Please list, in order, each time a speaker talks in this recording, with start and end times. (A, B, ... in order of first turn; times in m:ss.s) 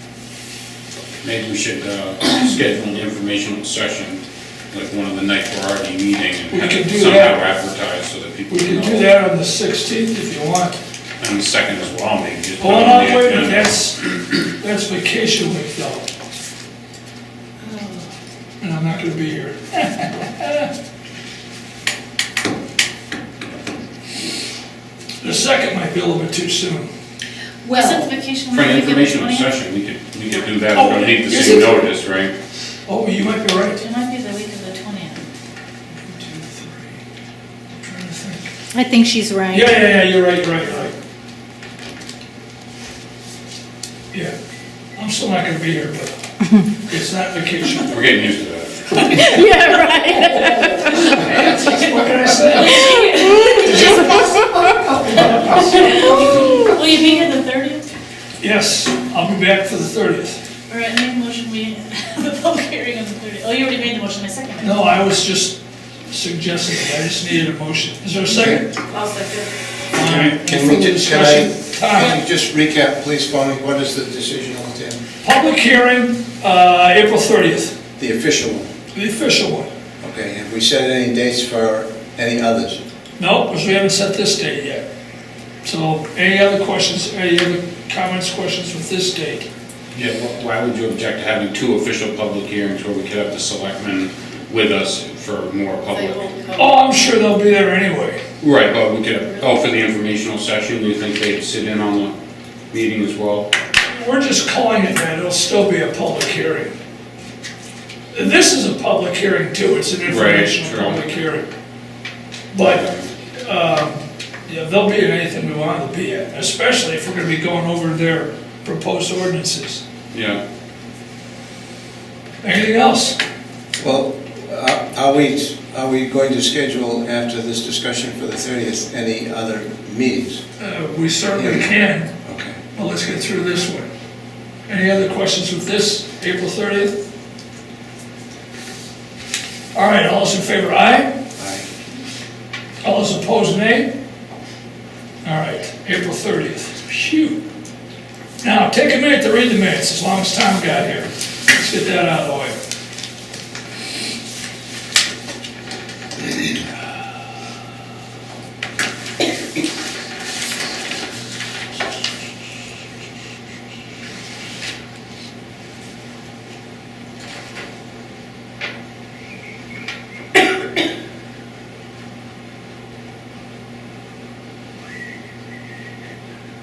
0:01.2-0:04.2 A
0:04.7-0:09.1 A
0:06.5-0:07.4 B
0:08.5-0:10.8 B
0:11.2-0:13.9 A
0:12.6-0:16.1 B
0:17.7-0:18.0 C
0:18.6-0:20.7 B
0:25.2-0:26.9 B
0:27.6-0:28.1 C
0:27.8-0:29.5 D
0:28.5-0:32.3 A
0:30.7-0:31.8 B
0:32.9-0:33.8 B
0:33.8-0:35.3 D
0:36.0-0:37.0 B
0:37.8-0:38.5 B
0:38.7-0:39.8 C
0:39.5-0:40.9 B
0:45.0-0:46.1 B
0:46.8-0:48.0 B
0:47.9-0:49.4 A
0:49.0-0:52.9 B
0:49.2-0:51.4 C
0:52.6-0:54.3 D
0:52.8-0:54.7 C
0:53.6-0:53.9 B
0:55.0-0:56.2 B
0:55.5-0:57.9 D
0:56.2-0:56.6 C
0:58.4-1:00.4 B
1:00.7-1:05.0 D
1:04.6-1:05.6 B
1:06.1-1:08.7 B
1:08.4-1:08.6 E
1:08.9-1:09.4 D
1:09.9-1:12.2 B
1:09.9-1:15.0 E
1:15.2-1:17.8 B
1:18.0-1:18.7 E
1:18.9-1:19.7 B
1:20.0-1:22.8 E
1:23.2-1:24.8 B
1:25.6-1:29.5 B
1:29.9-1:36.3 A
1:36.3-1:36.7 C
1:36.6-1:38.2 B
1:38.4-1:42.2 A
1:42.7-1:43.5 A
1:43.9-1:46.7 B
1:48.1-1:51.5 B
1:50.0-1:51.0 A
1:52.5-1:59.8 B
1:52.6-1:53.0 A
2:00.1-2:00.4 A
2:02.4-2:03.2 B
2:03.8-2:10.4 E
2:10.6-2:12.1 B
2:11.3-2:11.7 E
2:12.2-2:12.6 E
2:12.8-2:13.9 B
2:14.7-2:17.0 B
2:19.7-2:21.1 B
2:21.4-2:21.7 E
2:22.8-2:23.9 B
2:25.2-2:27.4 B
2:28.4-2:32.6 B